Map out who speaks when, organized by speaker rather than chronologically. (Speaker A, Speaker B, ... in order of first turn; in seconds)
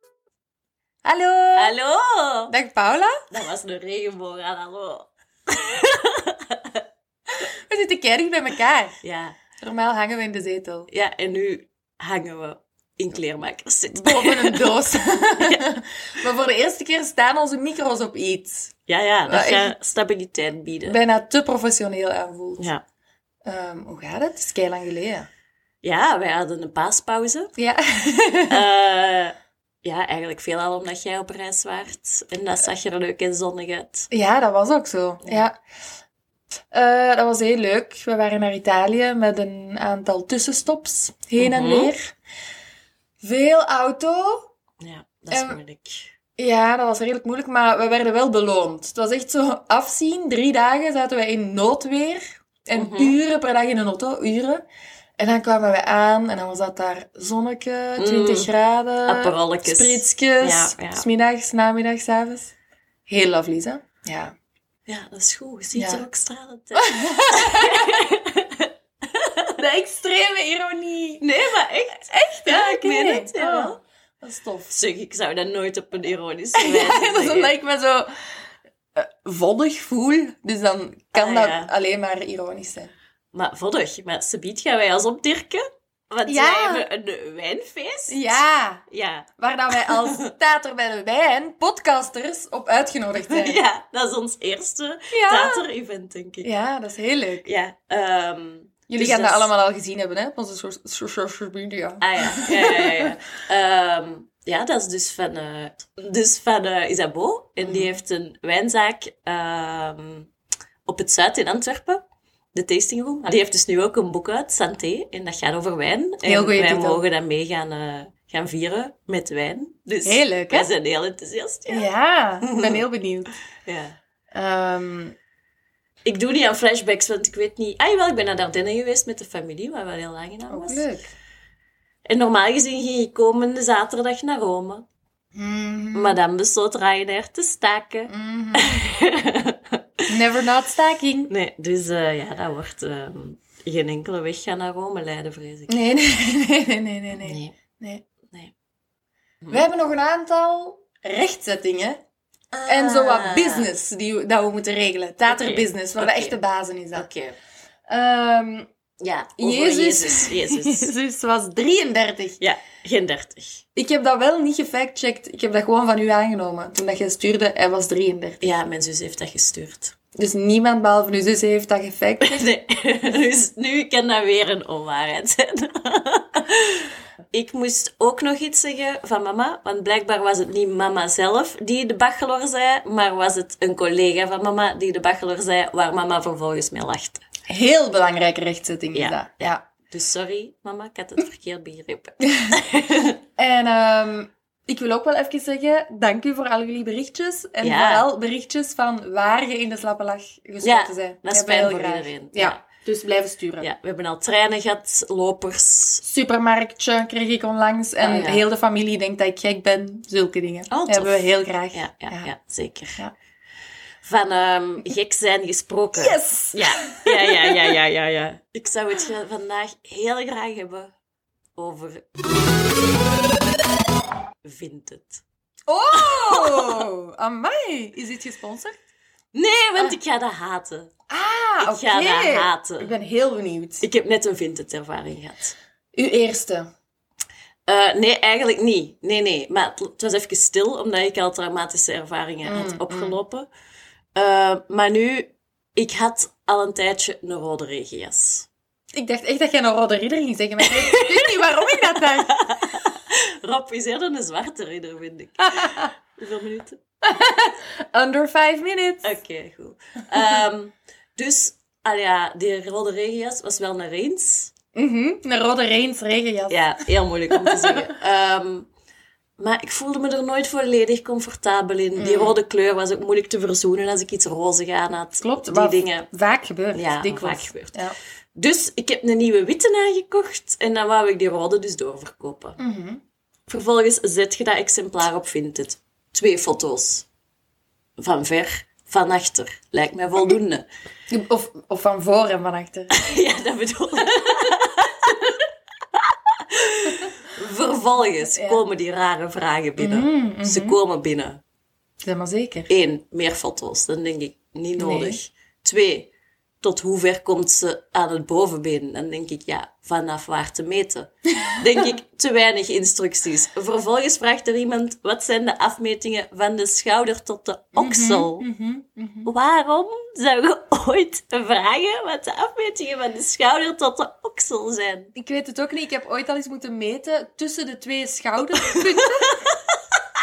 Speaker A: 1.0-1.7, 2.5-3.2, 7.4-9.0, 9.6-10.9, 13.9-18.7, 19.3-19.7, 20.9-22.7, 23.4-25.3, 27.6-28.6, 34.1-35.5, 36.7-42.1, 43.2-44.5, 45.3-45.6, 46.4-54.6, 55.2-62.5, 63.1-64.3, 65.8-66.0, 66.8-68.0, 69.5-71.3, 71.9-74.7, 76.5-78.1, 79.0-82.9, 86.3-86.9, 88.1-88.8, 89.4-93.7, 95.1-95.7, 96.4-97.5, 98.9-103.1, 107.6-108.0, 116.2-117.0, 120.0-120.7, 121.7-123.4, 124.3-125.2, 130.5-131.1, 135.3-136.2, 138.1-138.8, 140.1-141.3, 145.7-148.1, 149.5-152.0, 152.7-157.1, 157.9-158.7, 159.4-162.4, 163.8-168.5, 170.2-172.4, 187.5-189.7, 193.4-203.7, 206.0-212.3, 215.9-217.7, 225.7-228.8, 231.1-233.8, 235.9-236.7, 242.4-243.2, 248.9-252.5, 255.4-255.9, 257.0-259.1, 264.8-266.6, 267.3-267.9, 272.0-272.4, 275.2-277.9, 282.6-283.0, 291.1-293.0, 298.3-298.6, 299.8-300.8, 302.0-302.7, 304.8-305.2, 317.8-319.3, 325.1-329.4
Speaker B: 1.6-2.5, 3.3-6.8, 9.0-9.4, 10.9-14.8, 15.4-15.6, 18.9-21.0, 25.8-27.5, 28.5-34.1, 41.4-41.9, 44.8-46.1, 52.7-53.2, 58.0-58.5, 59.0-61.0, 64.9-69.6, 71.2-73.8, 74.7-77.5, 81.1-81.7, 83.3-90.2, 93.3-96.5, 97.5-99.5, 102.0-110.3, 110.9-112.0, 112.5-122.8, 123.7-124.0, 126.0-130.8, 132.1-134.8, 135.9-140.1, 141.3-145.8, 147.1-147.6, 148.2-148.5, 149.4-149.7, 152.5-153.7, 155.3-156.4, 156.9-157.4, 159.0-160.9, 162.4-163.6, 168.4-169.9, 172.2-187.2, 188.9-193.2, 197.6-198.1, 200.6-202.6, 203.6-206.0, 208.0-208.4, 210.7-213.0, 214.0-220.9, 221.6-222.1, 224.4-225.2, 225.9-226.9, 229.3-230.9, 231.6-232.9, 233.8-235.6, 237.7-243.5, 244.2-248.5, 250.6-256.8, 259.0-264.5, 266.5-268.7, 269.4-276.1, 276.7-277.8, 278.4-282.6, 283.5-287.1, 288.0-290.6, 292.9-301.4, 302.7-306.1, 306.6-318.4, 319.2-325.1, 328.6-329.6